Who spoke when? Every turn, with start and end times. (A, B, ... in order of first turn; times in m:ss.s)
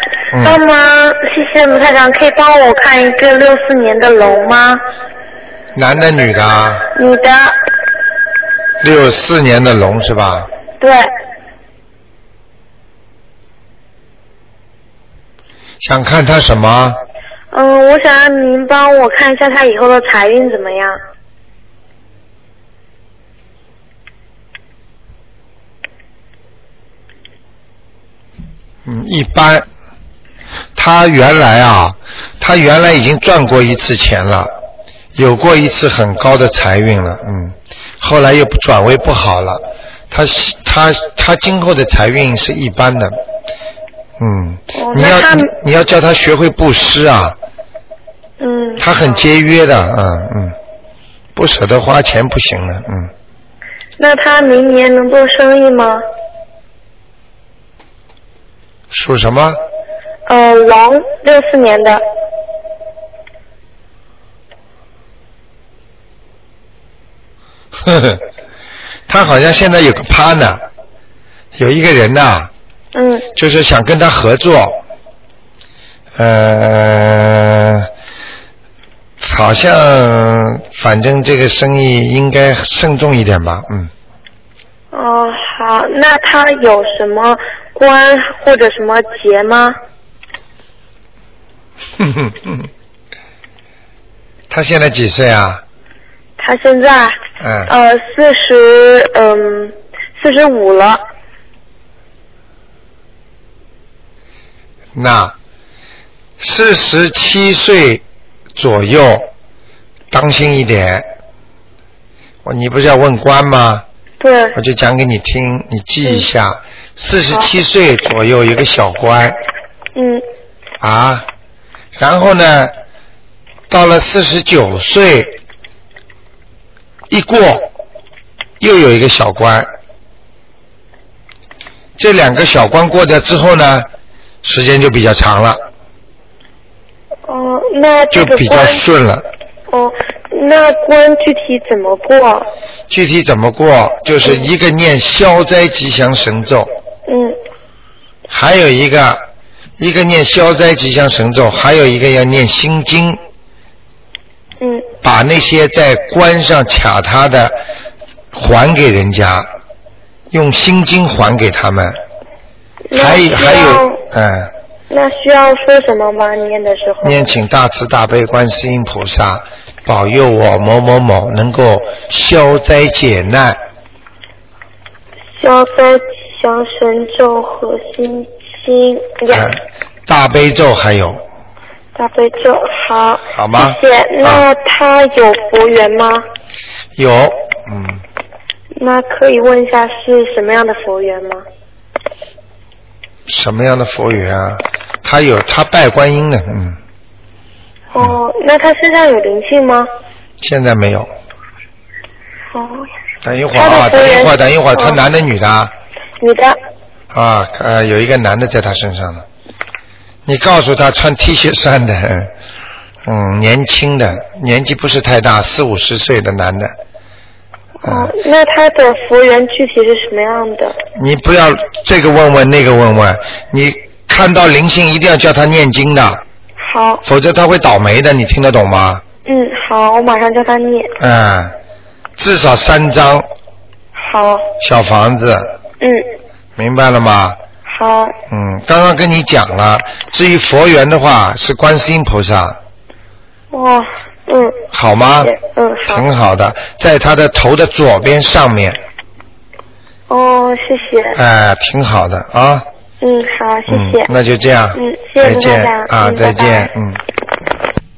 0:00.3-0:00.6 A
0:00.4-0:04.8 B
0:05.7-0:06.9 A
0:06.9-0:07.6 B
0:08.8-0:10.5 A
0:10.8-0:11.1 B
0:15.8-0:17.0 A
0:17.5-0:21.0 B
0:28.8-0:29.6 A
0:30.8-0:34.5 A
0:35.1-0:43.2 A
0:44.2-0:47.4 A
0:44.7-0:45.5 B
0:48.4-0:48.8 B
0:48.8-0:50.6 A
0:51.3-0:53.1 A
0:54.0-0:56.0 B
0:58.9-0:59.6 A
1:00.3-1:02.0 B
1:07.8-1:08.2 A
1:09.1-1:10.6 A
1:11.6-1:12.5 A
1:12.9-1:13.3 B
1:13.3-1:14.8 A
1:16.2-1:17.9 A
1:19.2-1:23.9 A
1:24.9-1:29.8 B
1:32.0-1:32.7 A
1:34.5-1:35.6 A
1:36.4-1:41.0 B
1:37.4-1:37.7 A
1:44.9-1:45.3 A
1:46.4-1:48.0 A
1:48.5-1:49.3 A
1:50.1-1:51.1 A
1:52.4-1:53.8 A
1:54.2-1:54.6 B
1:54.5-1:59.4 A
1:59.9-2:00.2 B
2:00.8-2:01.2 A
2:02.0-2:02.7 A
2:03.7-2:05.4 A
2:07.1-2:07.7 A
2:08.6-2:09.7 A
2:12.0-2:13.9 A
2:14.4-2:15.6 A
2:17.3-2:18.8 B
2:18.1-2:19.3 A
2:19.7-2:22.5 B
2:22.9-2:26.7 A
2:27.1-2:27.4 B
2:28.3-2:29.2 A
2:29.8-2:33.2 A
2:34.6-2:34.8 B
2:35.0-2:37.6 A
2:38.3-2:39.5 A
2:40.3-2:42.0 A
2:42.9-2:44.0 B
2:42.9-2:44.5 A
2:44.9-2:47.2 B
2:47.0-2:53.6 A
2:55.4-2:59.5 B
2:59.3-3:01.2 A
3:02.0-3:06.2 B
3:03.3-3:04.4 A
3:07.0-3:08.0 A
3:08.8-3:11.4 B
3:13.3-3:16.8 A
3:17.9-3:19.9 B
3:20.4-3:21.1 A
3:22.5-3:22.9 B
3:23.2-3:25.7 A
3:23.5-3:25.0 B
3:26.2-3:26.6 B
3:27.1-3:29.2 A
3:30.2-3:32.3 A
3:33.0-3:36.7 A
3:37.8-3:40.8 B
3:37.8-3:38.1 A
3:41.0-3:46.2 A
3:46.6-3:47.0 B
3:47.0-3:49.0 A
3:49.2-3:50.9 B
3:51.0-3:51.6 A
3:52.2-3:53.3 A
3:53.9-3:54.4 B
3:54.6-3:55.5 A
3:56.6-3:57.4 A
3:57.6-3:58.1 B
3:58.3-4:02.6 A
4:03.5-4:04.6 B
4:04.7-4:05.3 A
4:05.2-4:06.0 B
4:05.9-4:08.8 A
4:10.1-4:11.2 B
4:11.1-4:12.7 A
4:13.0-4:14.1 B
4:13.7-4:17.0 A
4:14.7-4:16.7 B